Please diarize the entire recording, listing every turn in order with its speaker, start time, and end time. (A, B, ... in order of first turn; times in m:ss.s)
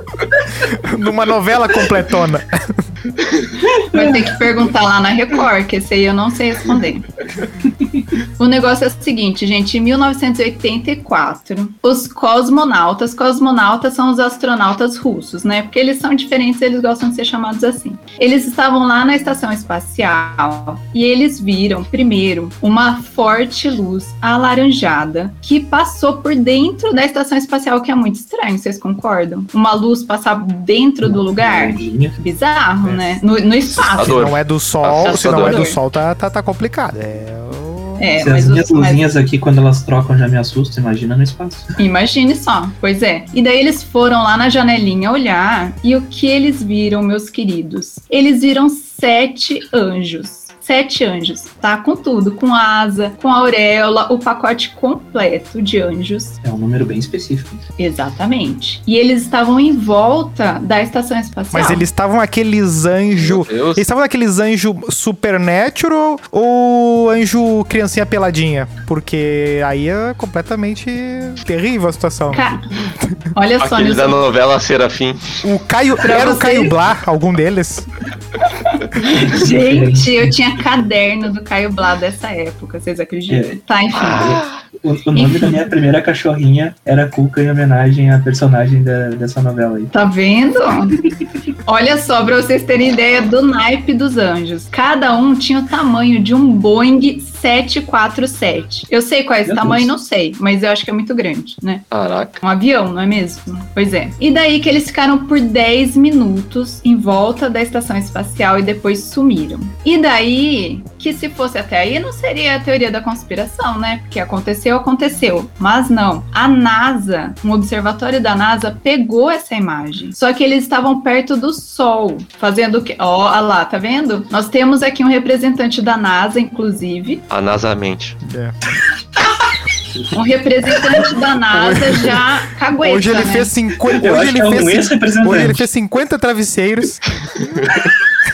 0:00.7-0:02.8 A
0:03.9-0:07.1 B
0:08.4-0:34.2 B
0:31.0-0:32.2 C
0:32.8-0:33.2 A
0:34.0-0:35.6 D
0:34.0-0:38.1 A
0:35.0-0:35.8 B
0:38.0-0:39.0 B
0:38.2-0:41.7 C
0:41.8-0:56.4 B
0:56.4-0:57.6 C
0:57.8-1:01.9 B
1:01.5-1:13.2 A
1:03.2-1:03.8 D
1:12.3-1:12.6 B
1:13.3-1:14.3 B
1:13.6-1:15.4 D
1:15.4-1:17.9 A
1:16.0-1:16.8 B
1:19.0-1:20.3 C
1:19.3-1:24.4 B
1:23.3-1:29.9 C
1:25.2-1:25.6 B
1:29.9-1:31.0 B
1:31.6-1:41.9 B
1:39.5-1:39.9 C
1:41.9-1:42.4 D
1:42.4-2:07.2 B
2:07.3-2:08.2 D
2:08.2-2:08.6 A
2:10.1-2:13.5 B
2:11.5-2:12.3 A
2:12.8-2:17.8 A
2:14.0-2:15.7 C
2:17.4-2:17.9 D